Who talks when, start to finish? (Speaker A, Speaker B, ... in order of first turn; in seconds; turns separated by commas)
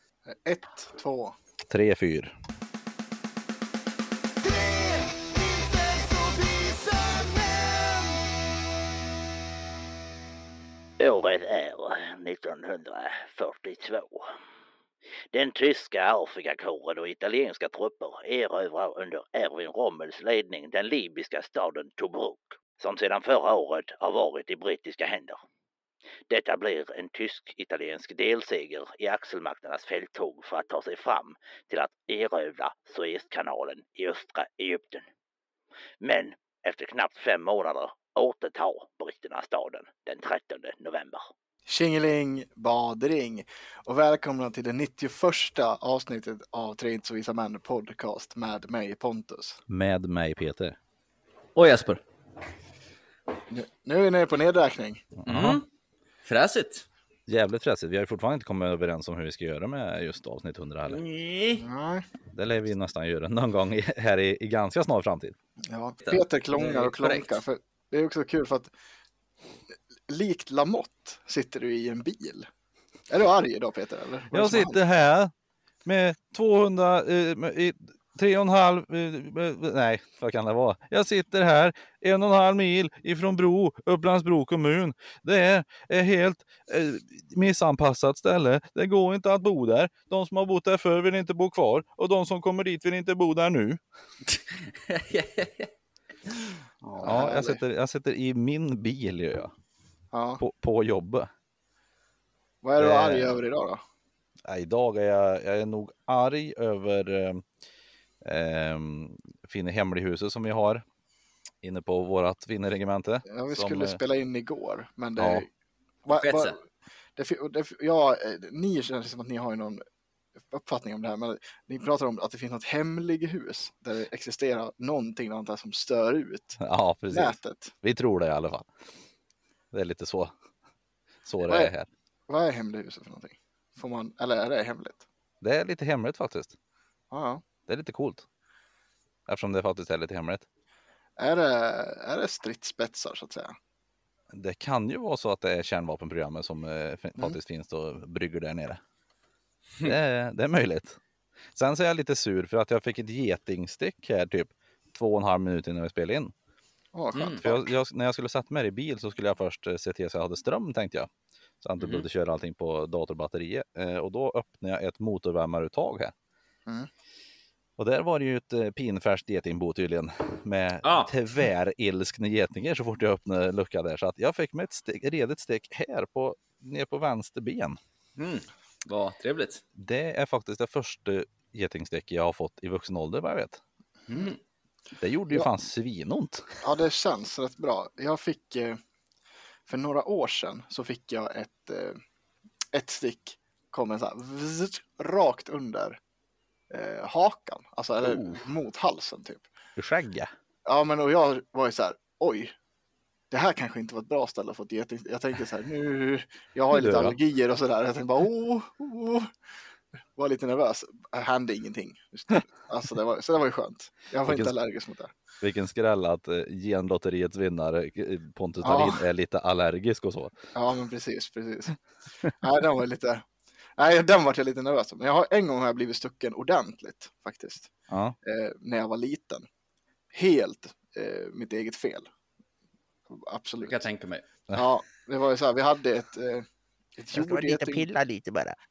Speaker A: 0.3-1.4, Speaker B: 1.7-2.4, Speaker C: 4.4-8.2, Speaker D: 11.0-14.3, Speaker D: 15.3-25.4, Speaker D: 26.3-35.1, Speaker D: 36.0-41.3, Speaker A: 41.7-49.6, Speaker B: 49.7-50.8, Speaker C: 51.5-52.0, Speaker A: 53.5-55.0, Speaker B: 55.2-55.6, Speaker C: 55.3-55.6, Speaker C: 56.2-56.9, Speaker B: 57.3-61.0, Speaker C: 60.9-61.6, Speaker A: 61.6-62.1, Speaker B: 62.3-65.4, Speaker A: 65.6-68.7, Speaker C: 66.1-67.4, Speaker A: 70.1-72.5, Speaker A: 73.1-74.8, Speaker B: 74.3-75.3, Speaker B: 75.8-93.8, Speaker C: 94.3-95.7, Speaker C: 96.3-97.1, Speaker A: 96.9-97.6, Speaker B: 97.0-99.5, Speaker A: 100.1-100.4, Speaker B: 100.4-101.3, Speaker A: 102.6-103.8, Speaker B: 102.8-103.4, Speaker B: 104.5-107.5, Speaker B: 108.2-110.8, Speaker B: 111.6-114.0, Speaker A: 113.3-115.5, Speaker B: 115.2-115.5, Speaker A: 116.1-116.6, Speaker C: 116.1-116.6, Speaker A: 117.2-119.8, Speaker A: 120.5-126.6, Speaker B: 126.6-128.7, Speaker A: 127.1-127.7, Speaker B: 129.7-130.3, Speaker B: 131.3-131.9, Speaker A: 131.5-131.7, Speaker A: 132.3-135.0, Speaker B: 135.4-136.5, Speaker A: 137.1-137.4, Speaker B: 137.7-138.2, Speaker B: 139.3-140.5, Speaker A: 141.2-143.6, Speaker B: 144.3-148.8, Speaker B: 149.8-151.0, Speaker B: 151.6-156.3, Speaker A: 156.9-157.7, Speaker C: 157.2-157.4, Speaker B: 157.4-161.1, Speaker B: 161.6-166.1, Speaker C: 161.8-162.1, Speaker B: 167.8-177.8, Speaker C: 170.8-171.1, Speaker C: 178.2-179.6, Speaker B: 179.8-183.6, Speaker C: 184.1-184.4, Speaker B: 185.0-186.6, Speaker A: 186.6-188.8, Speaker A: 189.7-192.0, Speaker A: 192.7-196.0, Speaker A: 196.7-199.5, Speaker B: 198.0-198.4, Speaker B: 199.8-200.3, Speaker A: 200.7-202.6, Speaker A: 203.3-209.3, Speaker B: 206.7-207.2, Speaker A: 210.2-215.1, Speaker B: 214.3-214.5, Speaker B: 215.4-220.3, Speaker A: 218.6-219.0, Speaker A: 220.6-221.8, Speaker A: 222.4-229.4, Speaker B: 227.9-228.2, Speaker A: 230.1-232.1, Speaker A: 233.1-233.8, Speaker C: 233.6-234.2, Speaker A: 234.5-237.9, Speaker B: 237.1-238.6